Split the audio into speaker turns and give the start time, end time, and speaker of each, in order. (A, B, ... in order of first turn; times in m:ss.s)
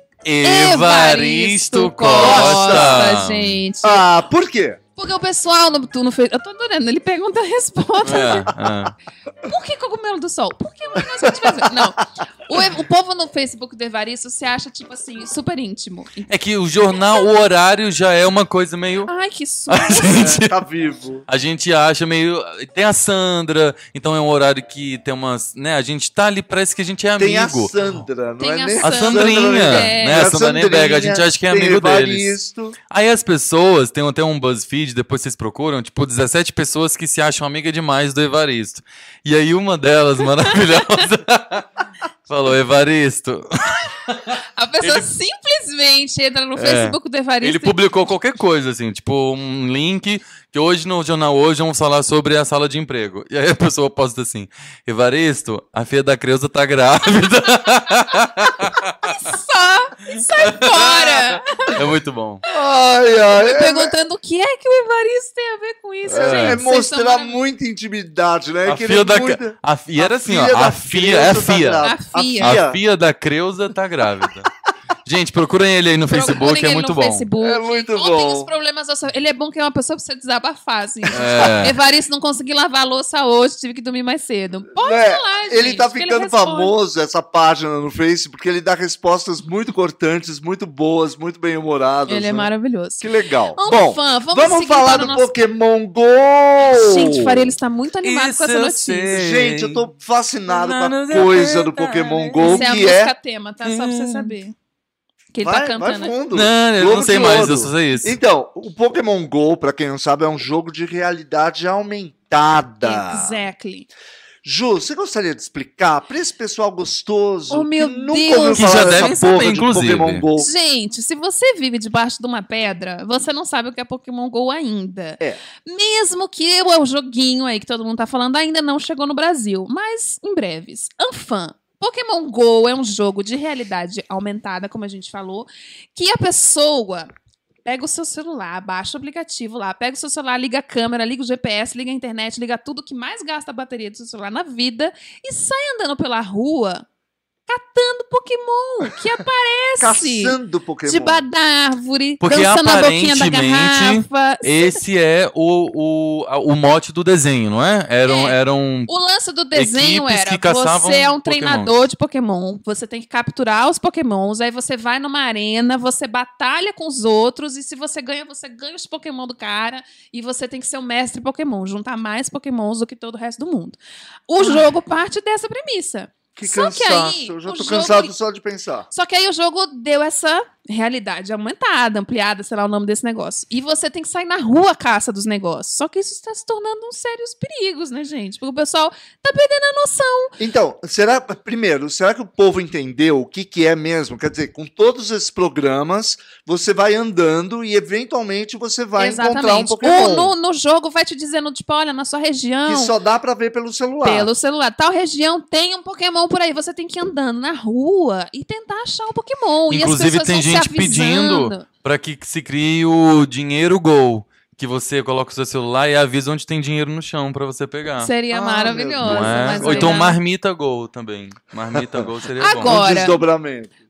0:00.2-0:03.6 A
0:00.4-0:04.0 B
0:02.1-0:03.2 C
0:03.8-0:04.8 C
0:05.0-0:08.5 B
0:08.0-0:08.9 A
0:09.4-0:16.3 B
0:11.2-0:11.8 C
0:16.3-0:19.1 A
0:19.1-0:20.3 B
0:19.7-0:20.6 A
0:20.0-0:21.2 C
0:21.3-0:27.7 A
0:27.2-0:32.8 C
0:28.4-0:30.3 B
0:28.8-0:32.3 A
0:32.9-0:41.7 A
0:42.3-0:45.1 A
0:44.6-0:47.8 B
0:46.6-0:59.1 A
0:59.0-1:01.8 B
1:00.1-1:02.4 A
1:02.5-1:03.9 C
1:03.3-1:07.4 B
1:06.1-1:12.8 C
1:06.1-1:06.6 A
1:08.6-1:14.5 A
1:11.8-1:12.6 B
1:15.0-1:17.2 A
1:16.1-1:26.7 B
1:17.4-1:18.5 C
1:21.1-1:21.7 A
1:21.1-1:21.4 C
1:24.8-1:37.5 C
1:32.1-1:35.3 B
1:36.6-1:39.1 B
1:38.0-1:39.8 A
1:39.1-1:43.1 C
1:40.5-1:42.8 A
1:42.4-1:44.5 B
1:43.6-1:44.3 A
1:45.3-1:46.1 B
1:45.4-1:53.4 C
1:46.3-1:48.1 A
1:52.8-1:53.9 B
1:54.4-2:00.5 C
1:57.5-1:59.2 B
1:58.5-2:00.2 A
2:00.4-2:17.1 B
2:17.6-2:26.8 B
2:27.5-2:34.8 B
2:29.8-2:31.2 C
2:32.2-2:38.9 A
2:38.0-2:38.4 B
2:38.9-2:58.1 B
2:39.5-2:41.8 A
2:56.4-2:58.9 C
2:58.9-3:10.3 B
3:10.4-3:20.3 C
3:19.0-3:22.9 B
3:22.6-3:24.3 C
3:24.0-3:31.6 B
3:29.7-3:38.1 A
3:38.0-3:40.2 B
3:38.3-3:40.0 C
3:38.9-3:42.8 A
3:41.7-3:42.0 C
3:42.4-3:43.2 B
3:42.6-3:43.7 C